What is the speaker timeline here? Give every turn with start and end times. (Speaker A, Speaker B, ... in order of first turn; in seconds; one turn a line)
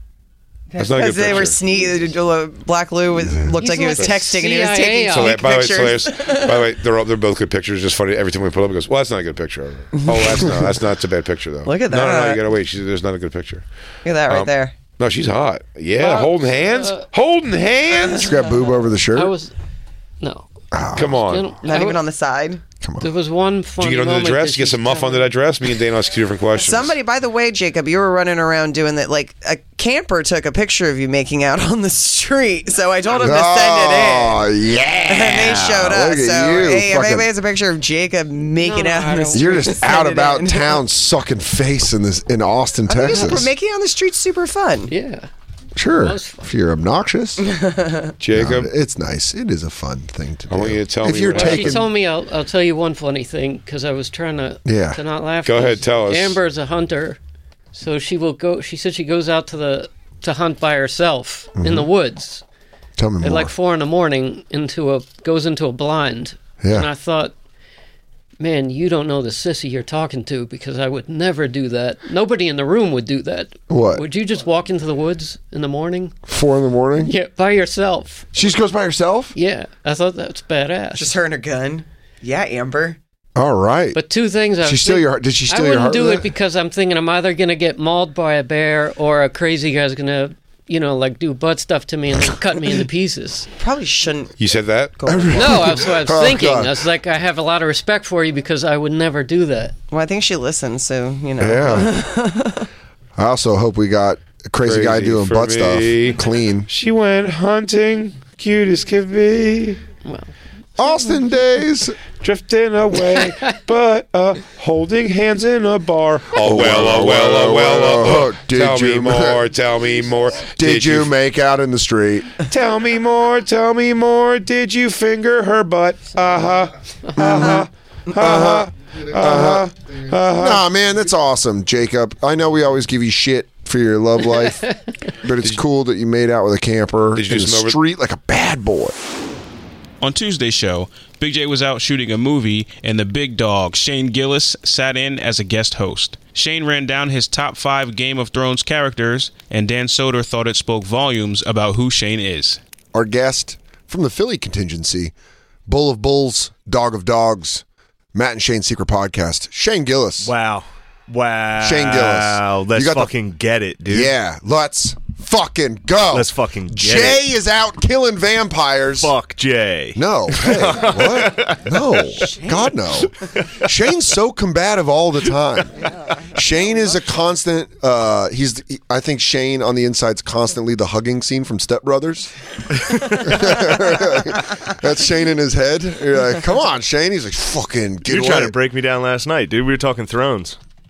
Speaker A: 0.7-6.7
Speaker B: 0.8-1.6
Speaker C: 3.6-5.4
Speaker B: 5.1-13.6
Speaker A: 10.0-10.5
Speaker A: 11.6-12.5
Speaker A: 14.0-14.8
Speaker B: 14.3-18.3
Speaker C: 16.0-17.1
Speaker D: 18.1-19.3
Speaker C: 19.1-19.5
Speaker C: 20.2-20.4
Speaker D: 20.7-21.2
Speaker B: 20.9-21.5
Speaker C: 21.1-22.0
Speaker A: 21.6-22.6
Speaker D: 22.8-23.1
Speaker C: 23.0-25.3
Speaker B: 23.8-26.9
Speaker A: 26.5-34.4
Speaker D: 33.1-37.3
Speaker A: 35.1-40.8
Speaker C: 38.6-39.9
Speaker D: 39.3-43.5
Speaker A: 42.9-44.9
Speaker C: 44.9-45.3
Speaker D: 45.8-47.4
Speaker C: 45.9-46.5
Speaker A: 47.4-48.1
Speaker B: 48.2-48.7
Speaker D: 48.3-51.9
Speaker B: 50.5-51.8
Speaker C: 51.3-57.2
Speaker D: 54.6-55.0
Speaker B: 55.4-56.4
Speaker C: 57.7-62.4
Speaker D: 61.6-61.9
Speaker D: 63.0-63.5
Speaker C: 63.2-67.3
Speaker D: 66.6-66.9
Speaker C: 68.4-76.1
Speaker D: 73.7-74.0
Speaker D: 76.3-77.1
Speaker C: 77.0-78.3
Speaker D: 78.3-79.3
Speaker C: 79.3-81.1
Speaker A: 80.9-83.0
Speaker D: 83.3-84.0
Speaker C: 83.9-93.5
Speaker D: 84.6-86.3
Speaker A: 93.6-94.3
Speaker B: 94.4-95.0
Speaker A: 95.0-95.8
Speaker D: 95.0-96.8
Speaker C: 95.3-99.7
Speaker A: 99.9-102.7
Speaker D: 101.4-102.0
Speaker D: 103.2-106.7
Speaker B: 104.6-109.8
Speaker C: 110.0-110.3
Speaker D: 110.8-112.0
Speaker B: 112.2-121.1
Speaker D: 116.3-119.5
Speaker D: 120.5-122.3
Speaker B: 122.5-130.6
Speaker D: 127.2-127.6
Speaker D: 128.1-129.7
Speaker D: 130.3-138.9
Speaker B: 137.1-137.8
Speaker E: 140.0-152.6
Speaker D: 152.9-155.1
Speaker D: 155.7-160.3
Speaker F: 160.2-164.1
Speaker D: 161.6-163.1
Speaker D: 163.9-169.1
Speaker F: 166.1-167.2
Speaker F: 169.0-172.5
Speaker D: 169.9-182.3
Speaker F: 173.2-173.7
Speaker F: 182.7-183.7
Speaker D: 183.1-188.5
Speaker F: 188.0-190.6